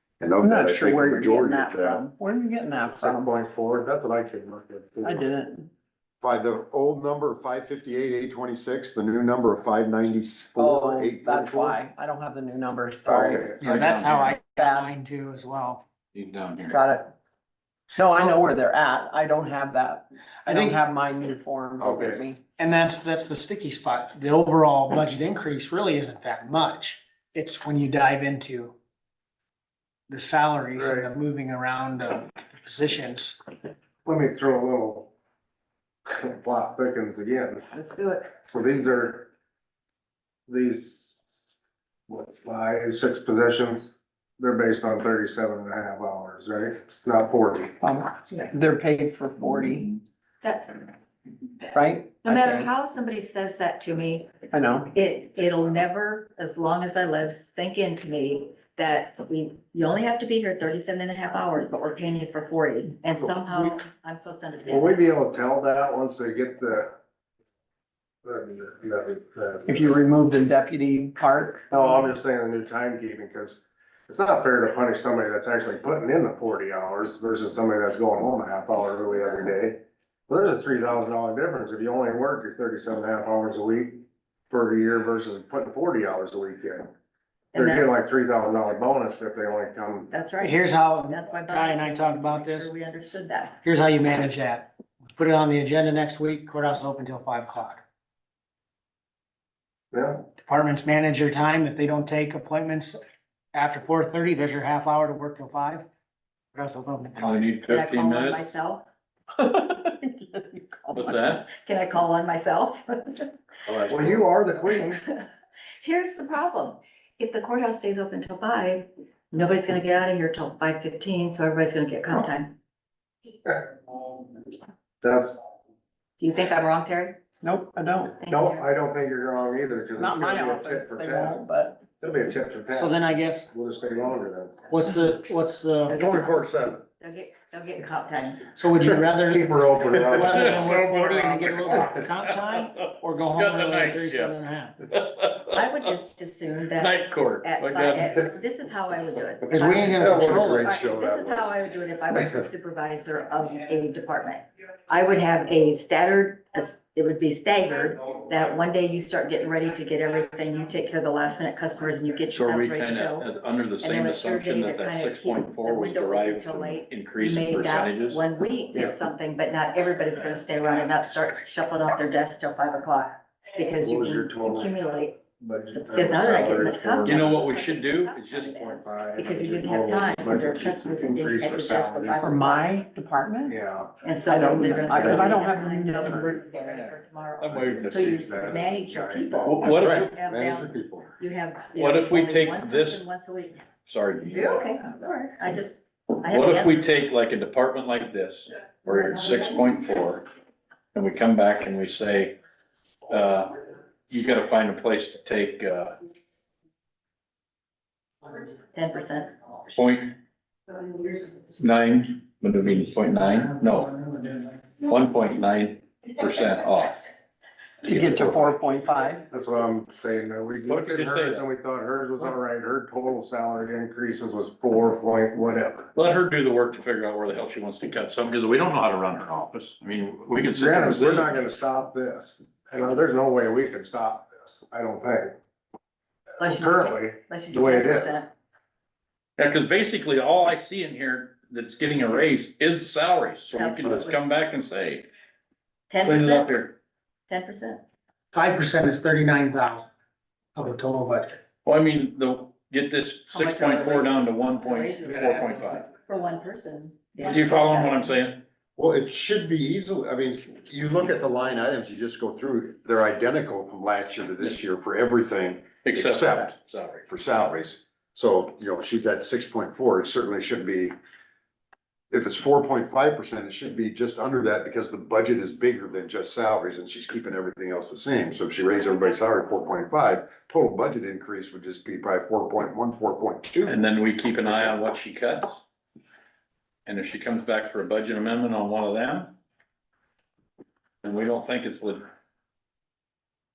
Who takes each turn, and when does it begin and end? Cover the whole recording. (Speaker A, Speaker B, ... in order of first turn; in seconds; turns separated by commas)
Speaker A: 0.2-2.1, Speaker B: 0.4-3.3, Speaker C: 2.8-5.2, Speaker B: 5.0-5.7, Speaker A: 6.2-11.8, Speaker B: 10.6-13.6, Speaker C: 13.1-13.6, Speaker D: 13.6-15.8, Speaker E: 13.6-14.4, Speaker B: 14.6-14.9, Speaker E: 16.1-16.8, Speaker B: 16.7-17.1, Speaker B: 17.9-22.4, Speaker D: 20.5-20.8, Speaker C: 21.8-22.2, Speaker D: 22.6-28.8, Speaker D: 30.1-33.4, Speaker C: 30.8-31.1, Speaker C: 34.0-35.1, Speaker C: 36.1-37.7, Speaker F: 37.7-38.3, Speaker C: 38.5-39.3, Speaker C: 40.5-41.5, Speaker C: 42.1-47.8, Speaker B: 47.8-50.0, Speaker F: 50.4-50.8, Speaker B: 51.7-52.7, Speaker F: 52.2-54.3, Speaker B: 54.5-54.9, Speaker F: 54.9-65.0, Speaker C: 64.7-66.9, Speaker C: 68.2-69.8, Speaker B: 69.7-71.8, Speaker C: 71.7-86.9, Speaker F: 87.5-87.9, Speaker C: 87.5-90.1, Speaker F: 90.1-93.6, Speaker D: 90.4-92.7, Speaker D: 93.6-97.8, Speaker C: 99.9-100.2, Speaker D: 100.4-103.0, Speaker D: 103.5-105.9, Speaker D: 106.5-107.6, Speaker E: 107.2-108.5, Speaker F: 107.6-108.8, Speaker B: 109.4-111.2, Speaker E: 110.9-111.5, Speaker F: 111.5-113.3, Speaker E: 113.7-114.2, Speaker C: 113.9-115.0, Speaker F: 115.8-122.5, Speaker C: 125.0-125.4, Speaker F: 126.2-127.2, Speaker B: 127.4-128.2, Speaker F: 128.2-128.7, Speaker C: 128.3-131.4, Speaker B: 130.0-131.8, Speaker C: 132.0-133.0, Speaker D: 132.7-133.5, Speaker C: 133.5-134.7, Speaker D: 134.7-136.0, Speaker F: 135.9-138.5, Speaker A: 135.9-136.8, Speaker D: 138.5-144.8, Speaker C: 138.8-140.6, Speaker E: 140.3-145.9, Speaker F: 145.5-163.3, Speaker E: 146.8-148.3, Speaker D: 149.5-150.7, Speaker A: 149.8-151.6, Speaker E: 162.3-168.2, Speaker F: 163.8-182.8, Speaker C: 173.8-174.7, Speaker C: 175.4-177.3, Speaker E: 176.3-178.8, Speaker C: 178.8-182.3, Speaker B: 182.2-183.6, Speaker C: 183.5-183.9, Speaker F: 184.0-193.7, Speaker B: 184.3-186.9, Speaker C: 184.6-185.4, Speaker E: 187.4-188.4, Speaker C: 187.5-189.6, Speaker E: 189.5-190.1, Speaker A: 189.6-191.1, Speaker E: 191.8-193.1, Speaker E: 193.9-194.7, Speaker F: 194.3-196.9, Speaker E: 196.2-200.3, Speaker E: 200.9-202.4, Speaker E: 203.1-203.6, Speaker E: 204.1-206.0, Speaker F: 208.7-209.3, Speaker E: 209.7-210.2, Speaker E: 211.6-217.1, Speaker B: 217.8-219.3, Speaker C: 219.3-225.9, Speaker E: 220.7-221.5, Speaker E: 225.9-231.3, Speaker C: 230.5-235.3, Speaker F: 236.4-238.3, Speaker C: 236.4-238.2, Speaker E: 239.4-245.1, Speaker F: 243.5-244.2, Speaker F: 245.9-246.5, Speaker E: 246.0-246.7, Speaker F: 247.3-247.8, Speaker D: 248.3-249.9, Speaker D: 250.6-251.4, Speaker E: 251.7-255.9, Speaker F: 253.3-258.2, Speaker E: 257.2-258.4, Speaker A: 258.8-270.9, Speaker E: 265.8-267.1, Speaker A: 272.1-283.8, Speaker E: 283.6-285.6, Speaker A: 284.4-284.8, Speaker E: 286.9-289.4, Speaker E: 291.0-292.0